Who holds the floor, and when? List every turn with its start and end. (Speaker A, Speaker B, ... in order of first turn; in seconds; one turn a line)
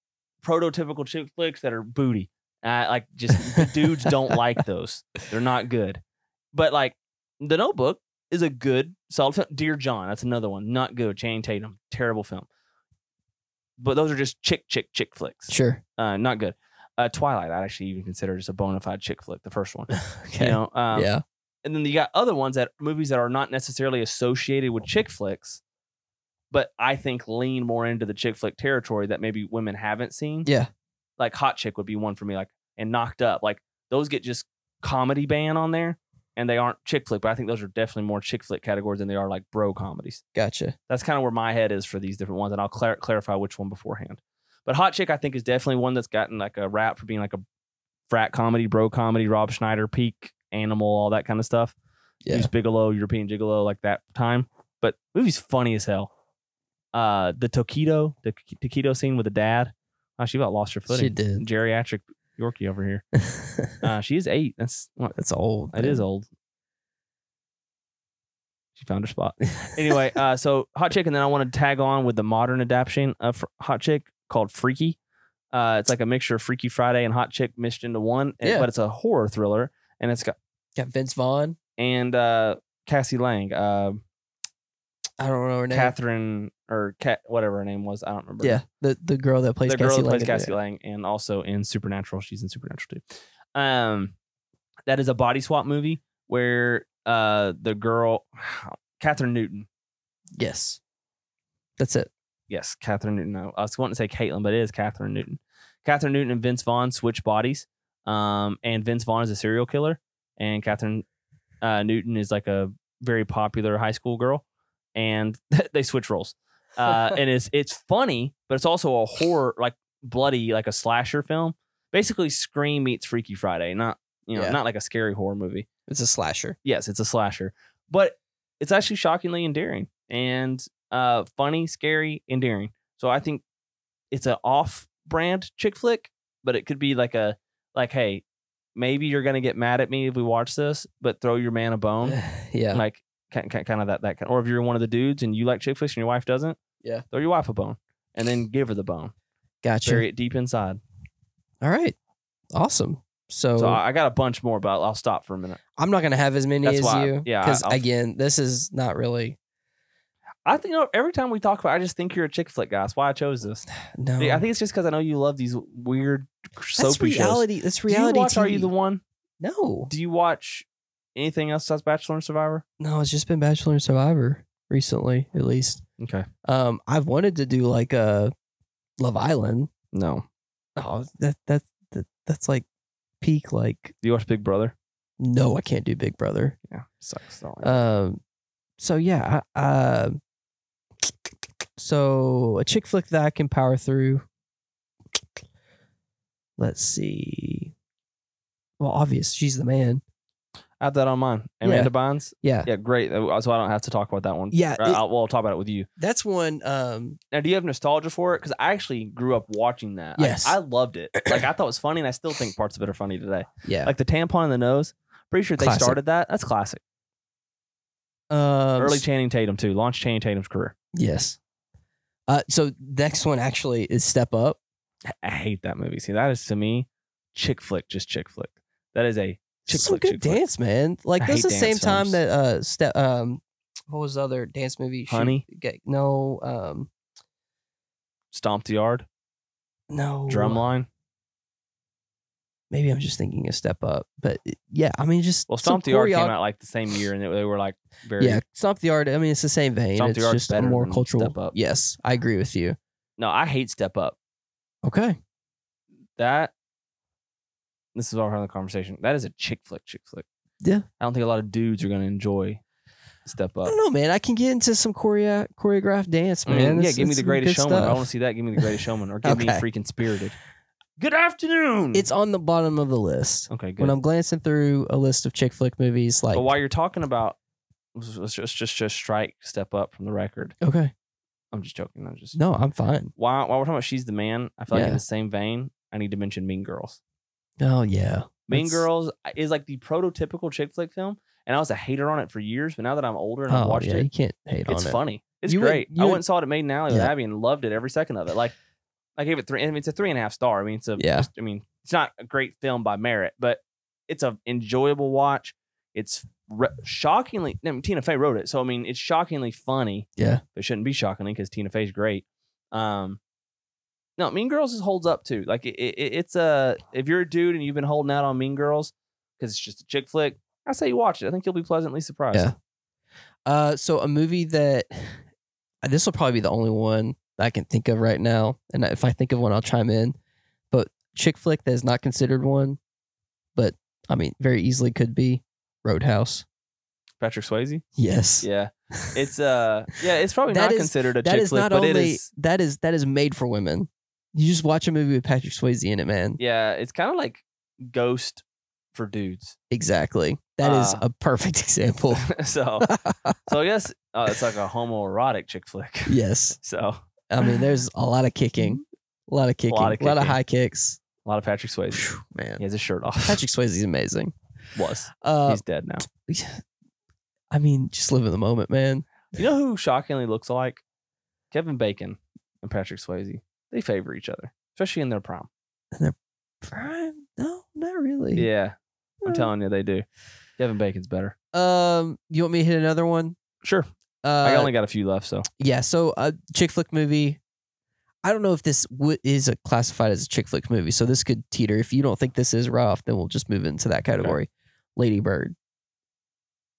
Speaker A: 0.4-6.0
Speaker B: 3.6-4.1
Speaker A: 6.5-12.5
Speaker A: 13.8-21.1
Speaker B: 15.5-15.8
Speaker B: 19.9-21.2
Speaker A: 21.6-25.6
Speaker A: 26.5-30.5
Speaker A: 31.2-40.2
Speaker B: 40.3-40.7
Speaker A: 40.9-47.4
Speaker A: 48.1-51.7
Speaker B: 52.2-52.5
Speaker A: 52.3-56.1
Speaker A: 56.9-63.0
Speaker B: 60.9-61.4
Speaker B: 63.2-63.8
Speaker A: 63.8-65.2
Speaker B: 65.2-66.0
Speaker A: 65.7-66.3
Speaker A: 68.8-75.0
Speaker A: 75.5-80.3
Speaker B: 78.4-78.7
Speaker B: 80.8-81.6
Speaker A: 81.8-84.0
Speaker B: 85.2-85.9
Speaker A: 85.7-88.6
Speaker B: 88.4-90.5
Speaker A: 89.7-93.0
Speaker A: 93.5-94.1
Speaker A: 94.9-99.7
Speaker B: 100.4-100.8
Speaker B: 101.8-102.1
Speaker A: 102.5-111.0
Speaker A: 111.6-114.4
Speaker A: 114.9-125.7
Speaker B: 116.9-117.2
Speaker B: 125.9-126.6
Speaker A: 126.6-133.4
Speaker A: 134.1-138.2
Speaker A: 138.8-142.2
Speaker B: 142.0-142.8
Speaker A: 142.7-146.6
Speaker A: 147.1-149.1
Speaker B: 149.6-150.1
Speaker A: 149.8-150.8
Speaker B: 151.6-151.9
Speaker B: 152.5-153.8
Speaker A: 153.6-155.6
Speaker B: 155.8-159.4
Speaker A: 156.6-157.8
Speaker A: 160.4-163.7
Speaker B: 163.8-164.4
Speaker A: 164.2-169.0
Speaker B: 166.8-168.7
Speaker B: 169.4-169.9
Speaker A: 169.9-172.6
Speaker B: 172.8-175.8
Speaker A: 176.0-176.3
Speaker B: 176.4-178.3
Speaker B: 179.0-179.7
Speaker A: 179.9-180.2
Speaker B: 180.8-182.6
Speaker B: 183.2-183.9
Speaker A: 184.0-184.7
Speaker B: 185.2-186.6
Speaker A: 186.7-187.8
Speaker B: 187.6-188.2
Speaker B: 188.8-190.2
Speaker B: 191.8-194.2
Speaker B: 196.6-197.7
Speaker B: 198.8-200.0
Speaker A: 200.8-205.9
Speaker B: 201.6-201.9
Speaker B: 202.4-202.7
Speaker B: 204.5-205.0
Speaker B: 206.0-207.2
Speaker A: 207.3-216.8
Speaker B: 210.2-210.6
Speaker B: 213.6-213.9
Speaker B: 215.6-216.0
Speaker B: 218.3-219.0
Speaker A: 218.8-220.7
Speaker B: 220.9-221.4
Speaker B: 222.3-224.6
Speaker A: 225.1-230.4
Speaker B: 229.7-236.9
Speaker A: 231.2-232.2
Speaker A: 235.1-235.4
Speaker A: 238.3-239.1
Speaker B: 239.9-240.6
Speaker A: 240.3-240.9
Speaker B: 242.7-246.3
Speaker A: 245.5-248.4
Speaker B: 248.2-252.8
Speaker A: 249.9-251.5
Speaker A: 253.2-254.2
Speaker B: 254.8-255.2
Speaker A: 256.2-256.5
Speaker A: 257.9-260.2
Speaker A: 261.0-262.6
Speaker A: 263.2-263.8
Speaker B: 263.6-268.6
Speaker A: 266.4-270.4
Speaker B: 269.2-269.6
Speaker A: 271.0-272.1
Speaker B: 271.9-276.5
Speaker A: 273.5-273.9
Speaker A: 276.3-277.4
Speaker A: 277.9-280.5
Speaker B: 280.6-280.9
Speaker A: 281.5-282.4
Speaker B: 282.3-283.1
Speaker A: 283.1-287.0
Speaker B: 284.7-285.0
Speaker B: 287.6-288.9
Speaker A: 288.5-294.1
Speaker B: 293.5-296.2
Speaker A: 294.7-298.5
Speaker A: 299.2-313.2
Speaker B: 301.0-301.3
Speaker B: 310.2-310.4
Speaker A: 314.2-322.5
Speaker B: 323.4-325.2
Speaker B: 325.8-330.2
Speaker B: 330.7-332.8
Speaker B: 333.5-336.4
Speaker A: 337.2-337.8
Speaker B: 337.9-338.5
Speaker A: 338.4-342.3
Speaker B: 340.5-346.4
Speaker A: 346.4-349.6
Speaker B: 349.7-352.3
Speaker A: 350.6-351.0
Speaker A: 352.1-352.9
Speaker B: 352.9-353.5
Speaker A: 353.5-357.0
Speaker B: 356.1-356.6
Speaker B: 357.3-361.0
Speaker A: 359.7-360.4
Speaker A: 361.2-363.4
Speaker B: 361.9-362.6
Speaker B: 363.2-364.3
Speaker A: 364.7-366.0
Speaker B: 365.1-366.6
Speaker B: 367.5-369.1
Speaker A: 369.3-370.8
Speaker A: 371.5-375.5
Speaker B: 375.9-378.5
Speaker A: 378.4-380.0
Speaker B: 379.2-379.5
Speaker A: 380.6-381.3
Speaker B: 381.5-383.4
Speaker B: 384.2-384.7
Speaker A: 384.4-385.4
Speaker B: 385.6-387.4
Speaker B: 388.2-395.5